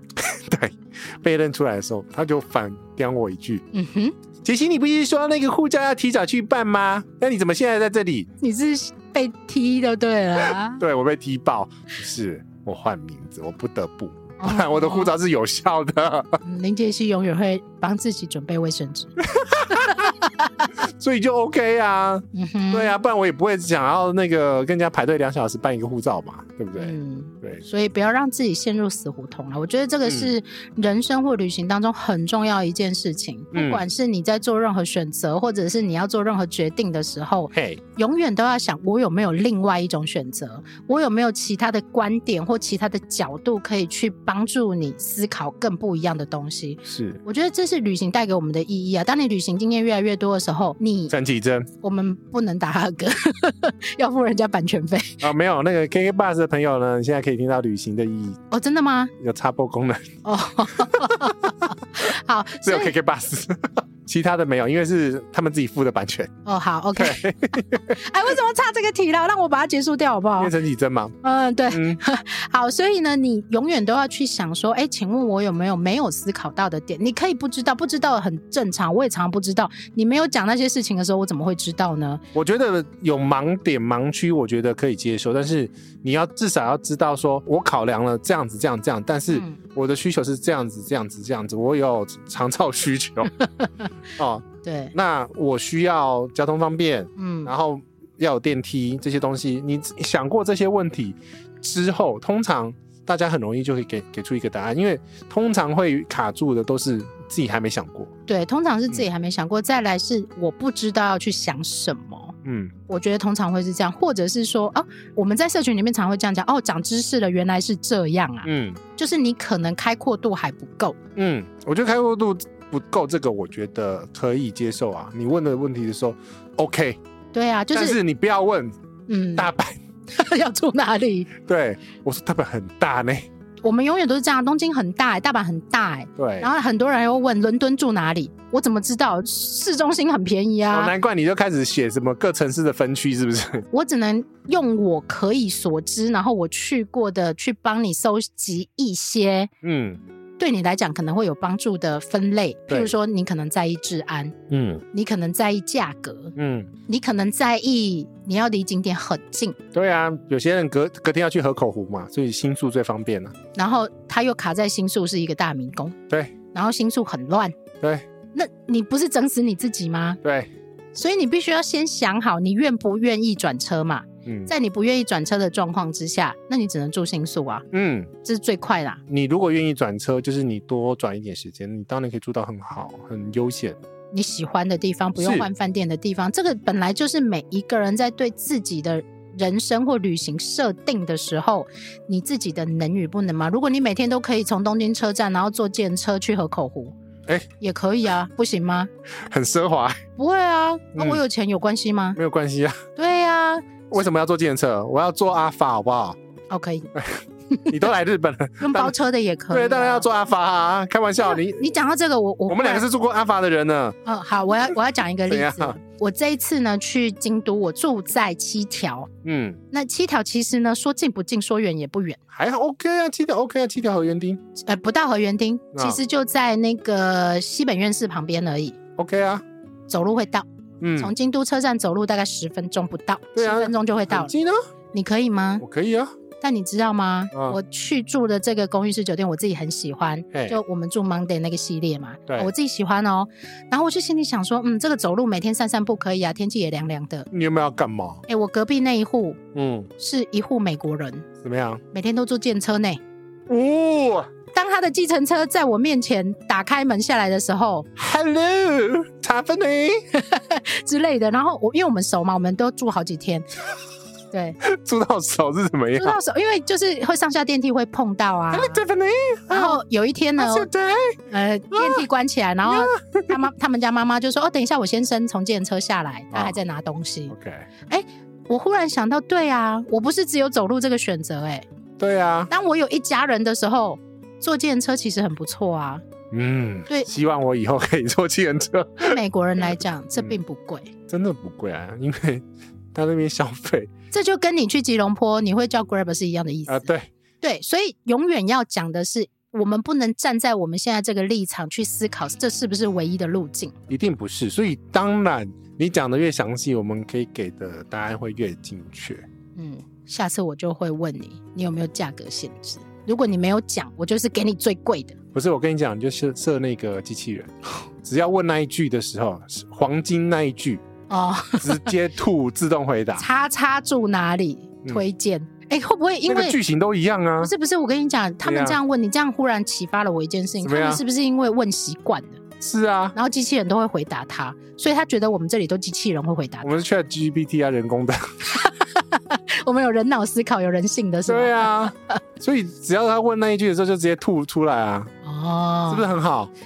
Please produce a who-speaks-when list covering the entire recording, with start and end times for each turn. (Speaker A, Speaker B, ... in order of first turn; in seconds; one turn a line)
Speaker A: 0.1-3.6
Speaker B: 3.7-4.1
Speaker A: 4.4-8.3
Speaker B: 8.4-10.8
Speaker A: 10.4-16.4
Speaker B: 14.4-15.1
Speaker B: 16.4-19.1
Speaker A: 19.2-20.1
Speaker B: 19.7-20.7
Speaker A: 20.8-27.6
Speaker B: 22.3-22.9
Speaker B: 26.8-51.1
Speaker A: 30.1-30.3
Speaker A: 33.5-33.8
Speaker A: 37.5-37.8
Speaker A: 46.9-47.2
Speaker A: 51.1-51.7
Speaker B: 51.8-55.2
Speaker A: 55.2-58.4
Speaker B: 58.5-59.1
Speaker A: 59.2-60.2
Speaker B: 60.2-62.9
Speaker A: 60.8-61.3
Speaker A: 62.6-66.3
Speaker B: 66.4-70.5
Speaker A: 67.0-68.0
Speaker A: 70.4-71.2
Speaker B: 71.2-82.2
Speaker A: 71.7-72.0
Speaker A: 82.3-93.3
Speaker B: 89.3-89.6
Speaker B: 93.4-93.9
Speaker A: 94.2-108.1
Speaker B: 94.6-94.9
Speaker B: 97.2-97.5
Speaker B: 108.3-112.3
Speaker A: 112.4-112.7
Speaker B: 112.9-121.0
Speaker A: 118.4-118.8
Speaker A: 121.2-127.0
Speaker B: 127.3-128.0
Speaker A: 127.7-128.7
Speaker B: 129.1-129.5
Speaker A: 129.4-129.8
Speaker B: 130.1-131.3
Speaker A: 131.4-133.3
Speaker B: 133.6-140.9
Speaker A: 136.2-136.5
Speaker A: 140.7-143.7
Speaker B: 143.7-149.5
Speaker A: 149.6-150.0
Speaker B: 150.4-154.3
Speaker A: 152.7-152.9
Speaker A: 154.5-154.8
Speaker B: 154.9-156.3
Speaker A: 156.4-156.7
Speaker B: 156.9-159.6
Speaker A: 159.7-163.3
Speaker B: 163.6-165.9
Speaker A: 166.1-166.3
Speaker B: 166.5-167.6
Speaker A: 167.8-168.1
Speaker B: 168.3-170.2
Speaker A: 170.2-170.5
Speaker B: 170.9-177.7
Speaker A: 174.2-174.5
Speaker A: 177.7-178.1
Speaker B: 178.2-179.0
Speaker A: 179.1-183.8
Speaker B: 184.1-196.9
Speaker A: 185.2-185.5
Speaker B: 197.6-198.9
Speaker A: 199.3-200.0
Speaker B: 200.2-202.2
Speaker A: 200.9-201.2
Speaker A: 202.2-202.8
Speaker B: 202.9-203.8
Speaker A: 203.9-206.2
Speaker B: 206.5-206.9
Speaker A: 206.9-209.0
Speaker B: 208.6-210.1
Speaker A: 209.5-211.7
Speaker B: 211.2-212.9
Speaker A: 212.5-214.0
Speaker B: 214.1-219.1
Speaker A: 215.3-215.8
Speaker A: 219.2-219.6
Speaker B: 219.7-222.2
Speaker A: 222.3-224.4
Speaker B: 224.6-228.8
Speaker A: 225.7-226.0
Speaker A: 229.0-229.4
Speaker B: 229.9-230.4
Speaker A: 230.8-231.1
Speaker B: 231.0-234.3
Speaker A: 233.4-234.6
Speaker B: 234.9-235.6
Speaker A: 235.6-236.1
Speaker B: 236.4-247.3
Speaker A: 237.3-237.6
Speaker A: 240.3-240.6
Speaker A: 247.3-248.2
Speaker B: 248.3-249.4
Speaker A: 249.5-249.9
Speaker B: 250.0-251.3
Speaker A: 251.4-251.8
Speaker B: 251.9-253.0
Speaker A: 253.5-254.3
Speaker B: 254.5-257.9
Speaker A: 257.9-260.1
Speaker B: 260.1-263.5
Speaker B: 264.3-264.6
Speaker A: 264.6-266.2
Speaker B: 265.9-268.8
Speaker A: 268.5-269.8
Speaker B: 269.5-270.7
Speaker A: 270.4-271.2
Speaker B: 271.3-277.3
Speaker A: 271.7-272.1
Speaker A: 272.6-273.4
Speaker A: 276.3-276.6
Speaker A: 277.3-277.7
Speaker B: 277.9-281.6
Speaker A: 282.0-282.5
Speaker B: 282.5-286.0
Speaker A: 286.3-289.2
Speaker B: 289.0-290.9
Speaker A: 291.1-293.9
Speaker B: 294.1-303.7
Speaker A: 296.7-297.1
Speaker A: 303.9-309.3
Speaker B: 309.6-315.1
Speaker A: 315.3-320.8
Speaker B: 321.1-321.9
Speaker A: 321.6-323.2
Speaker B: 323.1-326.6
Speaker A: 326.3-327.5
Speaker B: 327.4-332.4
Speaker A: 328.4-328.8
Speaker A: 330.6-331.0
Speaker A: 332.6-333.1
Speaker B: 333.1-336.8
Speaker A: 336.6-338.3
Speaker B: 338.5-342.2
Speaker A: 341.3-345.1
Speaker B: 345.2-346.1
Speaker A: 345.9-346.5